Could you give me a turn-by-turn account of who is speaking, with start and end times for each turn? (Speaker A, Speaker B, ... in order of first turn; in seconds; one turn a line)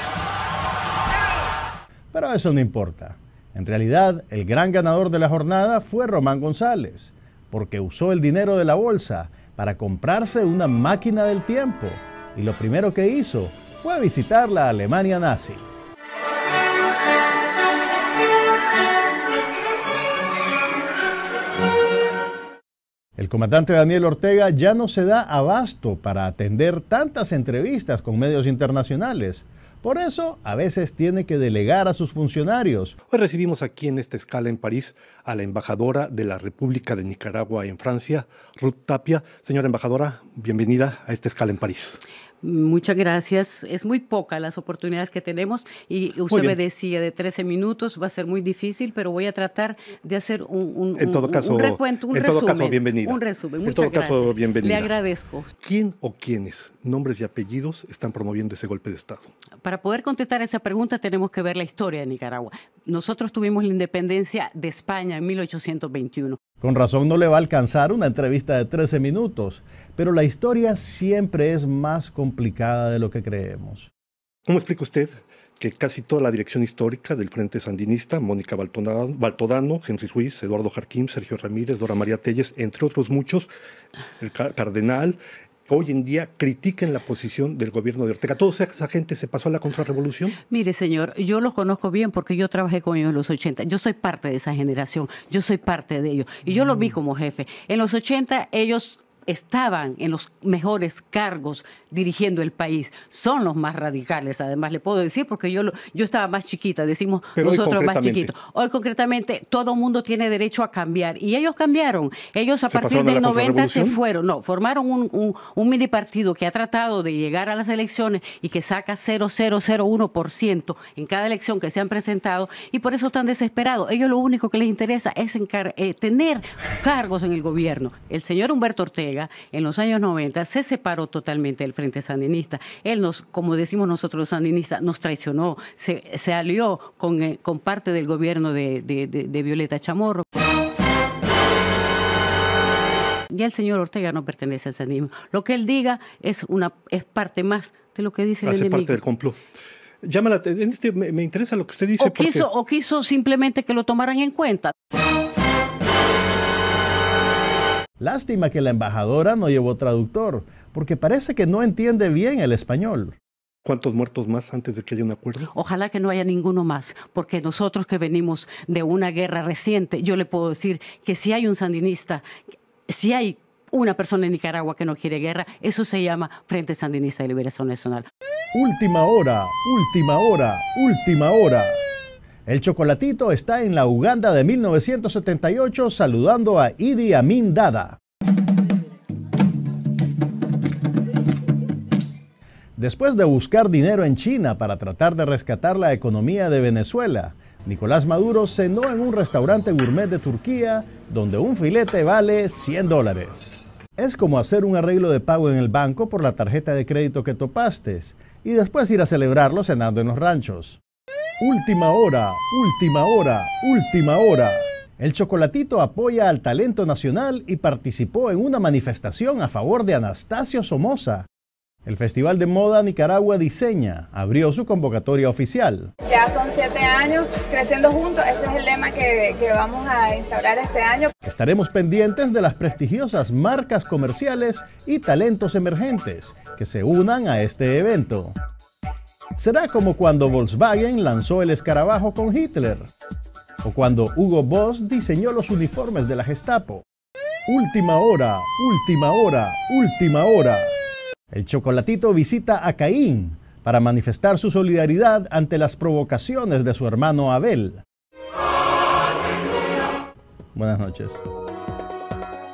Speaker A: 2.1-15.6
Speaker A: 23.1-32.9
Speaker B: 33.1-42.0
Speaker C: 42.4-55.5
Speaker B: 46.3-46.6
Speaker B: 51.0-54.9
Speaker B: 55.6-59.3
Speaker C: 59.6-66.4
Speaker A: 66.6-73.9
Speaker B: 74.5-83.5
Speaker B: 84.2-90.4
Speaker C: 90.5-140.2
Speaker B: 107.4-108.3
Speaker B: 112.7-114.0
Speaker C: 143.3-149.0
Speaker B: 148.4-149.4
Speaker B: 150.0-152.5
Speaker C: 152.0-154.7
Speaker A: 158.0-163.2
Speaker B: 163.6-165.5
Speaker C: 165.5-172.2
Speaker C: 172.9-178.1
Speaker A: 178.5-181.8
Speaker A: 182.4-188.0
Speaker A: 192.8-210.8
Speaker A: 211.4-221.3
Speaker A: 221.8-225.9
Speaker D: 226.0-231.1
Speaker A: 231.2-238.3
Speaker A: 239.4-242.9
Speaker A: 243.6-246.8
Speaker A: 247.5-250.7
Speaker A: 251.3-257.8
Speaker A: 260.5-261.2